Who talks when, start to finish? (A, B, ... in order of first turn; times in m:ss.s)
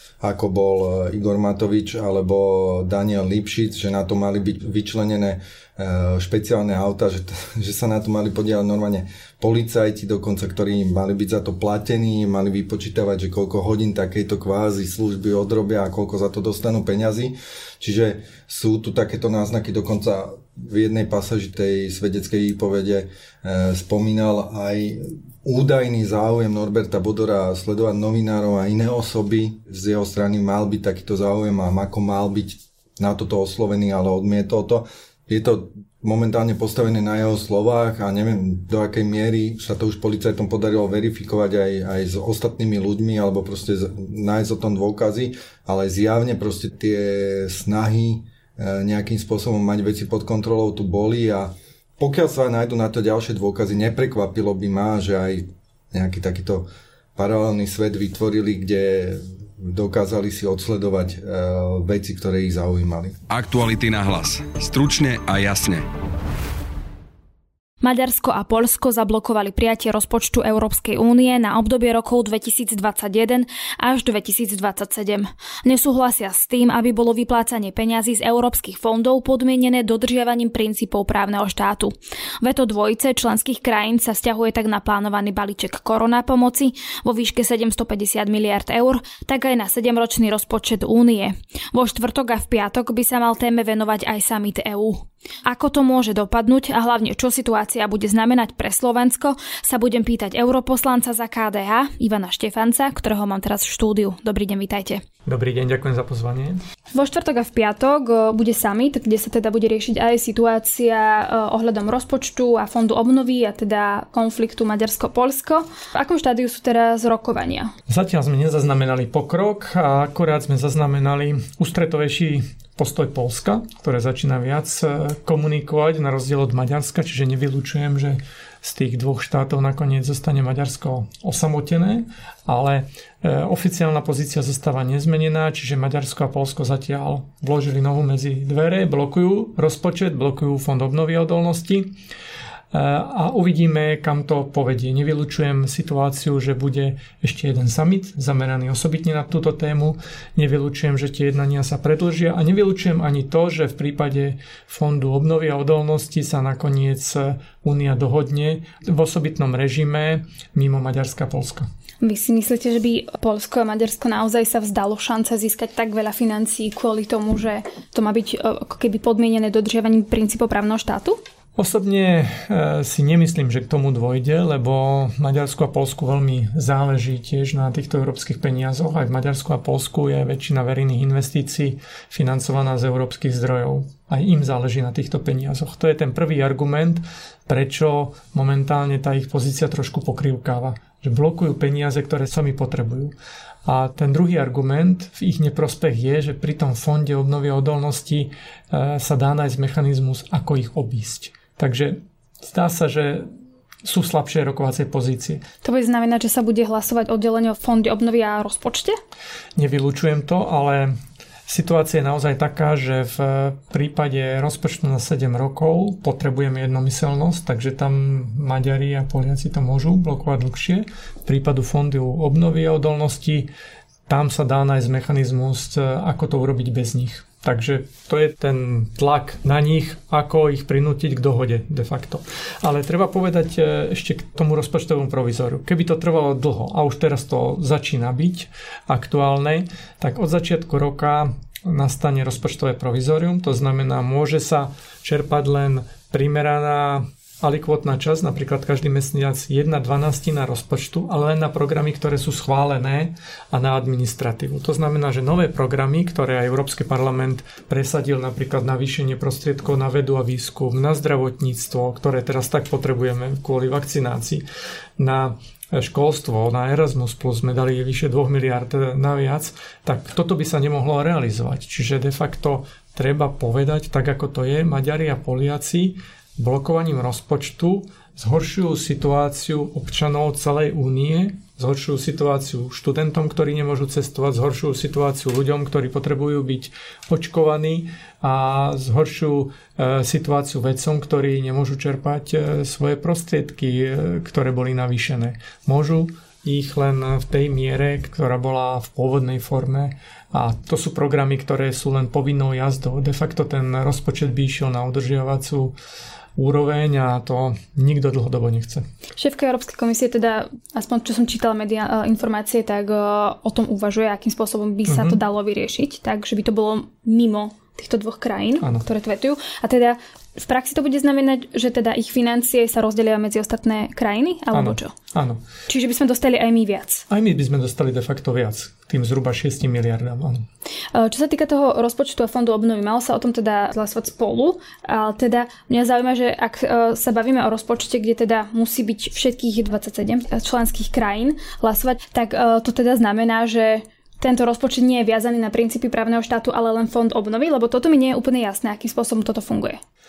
0:00.2-1:03.2 A
1:03.3-1:05.9 B
1:07.8-1:45.0 C
1:45.3-1:46.6 D
1:46.9-1:57.7 C
1:57.9-2:21.9 D
2:22.7-2:41.7 D
2:42.0-2:51.2 C
2:51.6-3:13.1 D
3:13.7-3:23.3 D
3:23.8-3:25.4 D
3:25.6-3:29.0 C
3:29.6-3:31.0 D
3:31.5-3:43.5 D
3:44.1-4:24.4 D
4:25.0-5:05.7 D
5:06.4-5:08.8 D
5:09.2-5:24.9 C
5:14.9-5:15.2 D
5:24.5-5:25.4 D
5:25.7-5:27.0 C
5:27.1-5:30.5 D
5:30.9-5:49.8 C